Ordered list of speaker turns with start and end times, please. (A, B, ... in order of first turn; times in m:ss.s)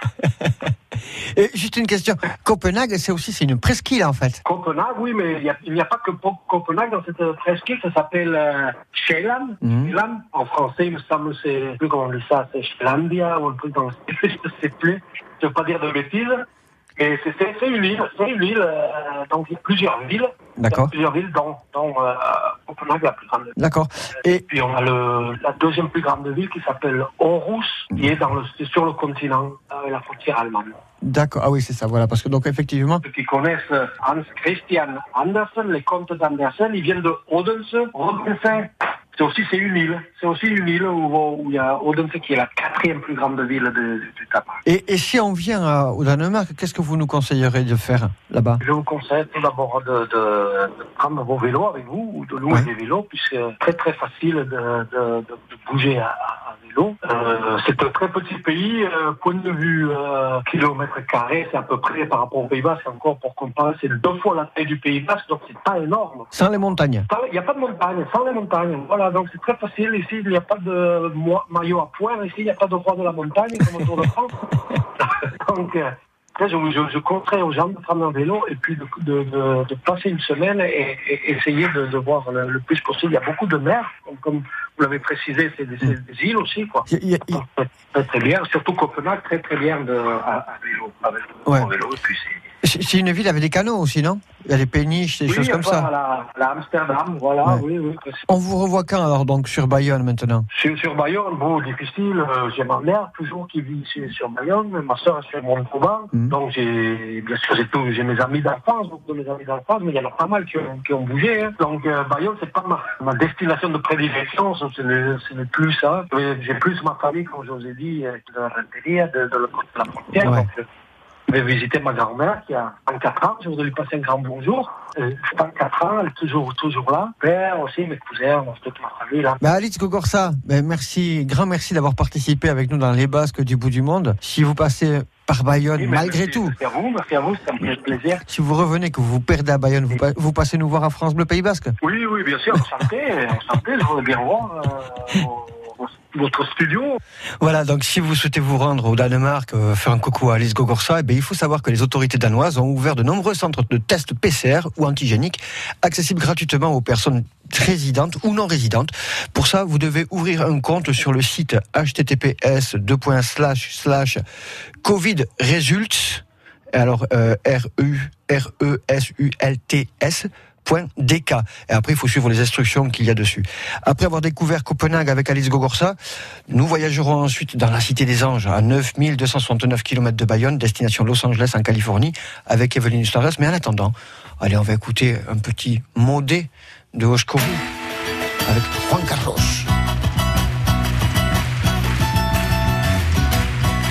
0:01.2-0:04.4 A
0:04.4-0:23.6 B
0:09.6-0:09.9 A
0:20.6-0:20.9 A
0:23.6-0:24.4 A
0:24.4-0:30.8 B
0:31.0-0:33.0 A
0:33.0-0:44.6 B
0:44.6-0:48.6 A
0:48.6-1:06.3 B
1:06.3-1:07.1 A
1:07.1-1:32.4 B
1:26.9-1:27.4 A
1:32.6-1:35.9 A
1:35.3-1:38.2 B
1:38.3-1:40.5 A
1:40.5-2:00.7 B
2:00.2-2:00.5 A
2:01.3-2:09.4 B
2:09.4-2:16.5 A
2:15.8-2:18.2 B
2:18.3-2:21.7 A
2:21.8-2:27.0 B
2:27.4-2:44.2 A
2:44.8-2:56.0 A
2:56.5-3:07.6 A
3:08.4-3:09.7 A